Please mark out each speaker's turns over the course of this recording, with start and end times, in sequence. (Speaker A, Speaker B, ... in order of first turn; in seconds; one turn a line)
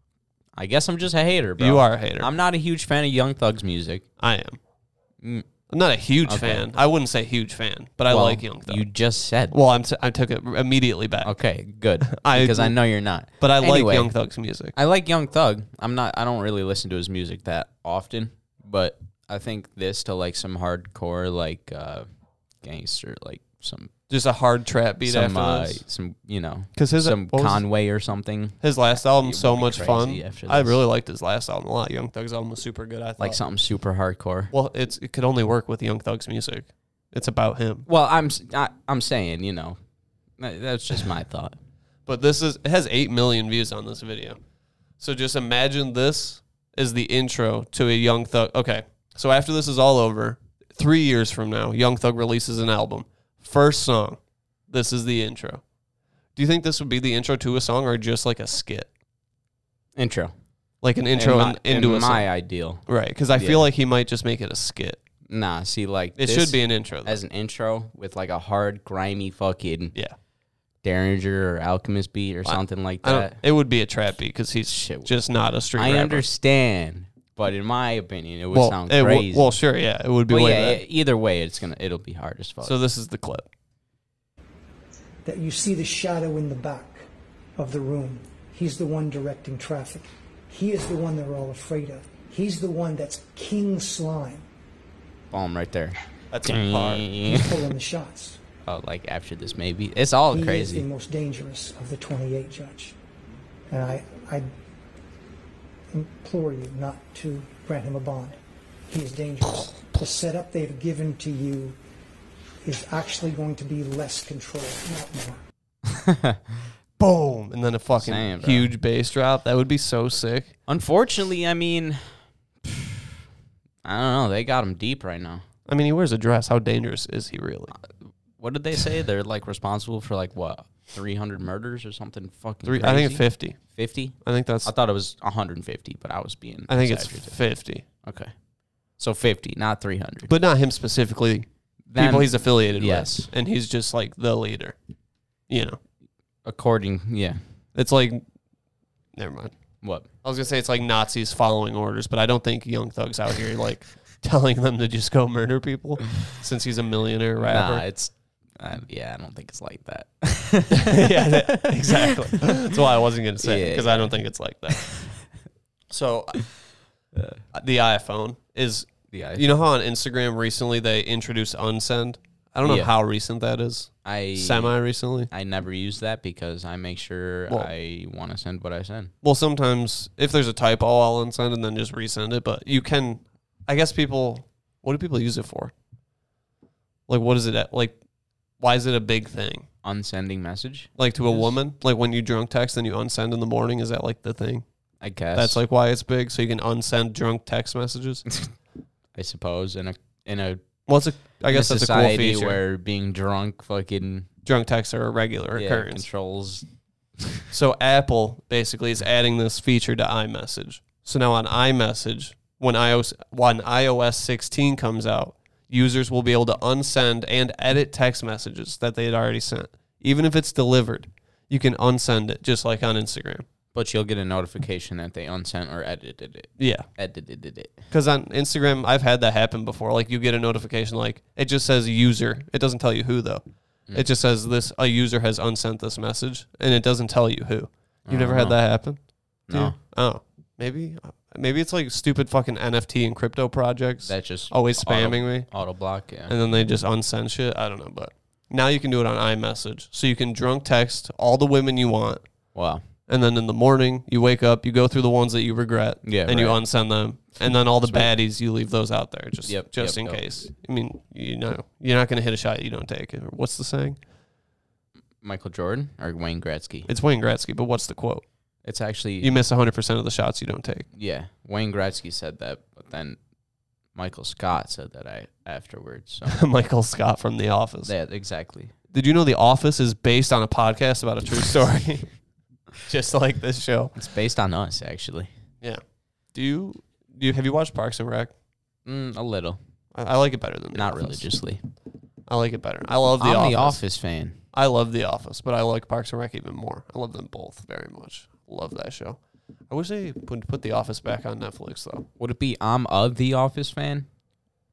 Speaker A: 0.5-4.0
Speaker B: 1.6-2.3
Speaker B: 4.2-4.6
Speaker A: 5.2-5.5
Speaker B: 5.7-8.8
Speaker A: 6.2-6.7
Speaker A: 8.1-9.6
Speaker B: 9.5-11.3
Speaker A: 11.2-14.1
Speaker B: 12.1-12.8
Speaker B: 13.3-14.7
Speaker A: 14.7-22.1
Speaker A: 22.6-23.9
Speaker B: 24.1-25.8
Speaker A: 25.0-30.8
Speaker B: 26.7-27.6
Speaker B: 28.6-33.4
Speaker A: 33.2-34.5
Speaker B: 34.5-37.9
Speaker A: 37.9-39.8
Speaker A: 40.4-41.5
Speaker B: 42.0-44.4
Speaker B: 45.0-55.6
Speaker B: 56.4-58.9
Speaker A: 60.0-60.4
Speaker B: 60.8-62.3
Speaker A: 61.1-63.7
Speaker B: 62.9-65.0
Speaker A: 65.3-69.9
Speaker B: 66.2-67.2
Speaker A: 70.8-73.4
Speaker B: 72.4-76.2
Speaker A: 74.7-75.1
Speaker A: 75.7-79.5
Speaker B: 78.5-80.8
Speaker A: 80.3-82.8
Speaker B: 82.6-83.5
Speaker C: 85.2-94.5
Speaker A: 95.3-97.6
Speaker B: 96.3-97.0
Speaker C: 97.2-98.4
Speaker A: 98.7-100.9
Speaker C: 100.3-102.9
Speaker C: 103.7-104.5
Speaker C: 105.9-111.8
Speaker C: 112.6-115.4
Speaker A: 115.9-116.4
Speaker B: 117.0-120.5
Speaker A: 118.0-118.7
Speaker A: 120.7-123.0
Speaker A: 123.8-125.4
Speaker B: 125.7-127.7
Speaker A: 127.7-137.4
Speaker B: 132.6-133.6
Speaker B: 134.2-134.7
Speaker B: 136.7-137.8
Speaker A: 138.0-138.3
Speaker A: 138.9-140.3
Speaker B: 140.2-144.8
Speaker A: 141.9-143.3
Speaker B: 145.5-145.8
Speaker A: 146.4-147.4
Speaker B: 147.7-148.2
Speaker B: 149.1-149.5
Speaker A: 149.8-150.1
Speaker B: 150.2-157.9
Speaker A: 157.4-162.6
Speaker B: 160.8-165.0
Speaker A: 163.4-164.2
Speaker A: 164.7-165.1
Speaker B: 165.9-166.6
Speaker B: 167.5-175.3
Speaker A: 169.1-169.5
Speaker A: 172.6-172.9
Speaker A: 174.0-179.1
Speaker B: 179.2-185.7
Speaker B: 187.1-188.0
Speaker B: 188.6-189.7
Speaker A: 189.8-191.5
Speaker B: 191.0-194.6
Speaker A: 195.0-195.6
Speaker B: 195.3-198.2
Speaker A: 199.1-200.6
Speaker B: 200.9-202.6
Speaker A: 201.5-204.3
Speaker B: 204.4-206.1
Speaker A: 205.5-206.6
Speaker B: 207.5-223.4
Speaker A: 223.7-227.8
Speaker B: 226.6-226.9
Speaker B: 227.9-245.7
Speaker A: 238.1-239.8
Speaker A: 244.1-246.5
Speaker B: 246.2-252.2
Speaker A: 252.5-252.8
Speaker B: 253.1-264.0
Speaker A: 256.0-256.6
Speaker A: 257.5-258.1
Speaker A: 259.4-260.2
Speaker A: 265.2-266.9
Speaker B: 266.9-268.2
Speaker A: 268.6-269.3
Speaker B: 269.2-270.9
Speaker A: 270.9-273.2
Speaker A: 273.9-276.4
Speaker B: 276.3-277.9
Speaker A: 277.9-278.7
Speaker B: 278.9-282.1
Speaker B: 282.9-283.9
Speaker A: 283.9-285.3
Speaker B: 286.3-288.3
Speaker A: 288.9-289.6
Speaker B: 289.9-291.3
Speaker A: 290.7-291.6
Speaker B: 292.3-293.8
Speaker A: 293.2-294.4
Speaker B: 294.5-302.1
Speaker A: 302.2-304.1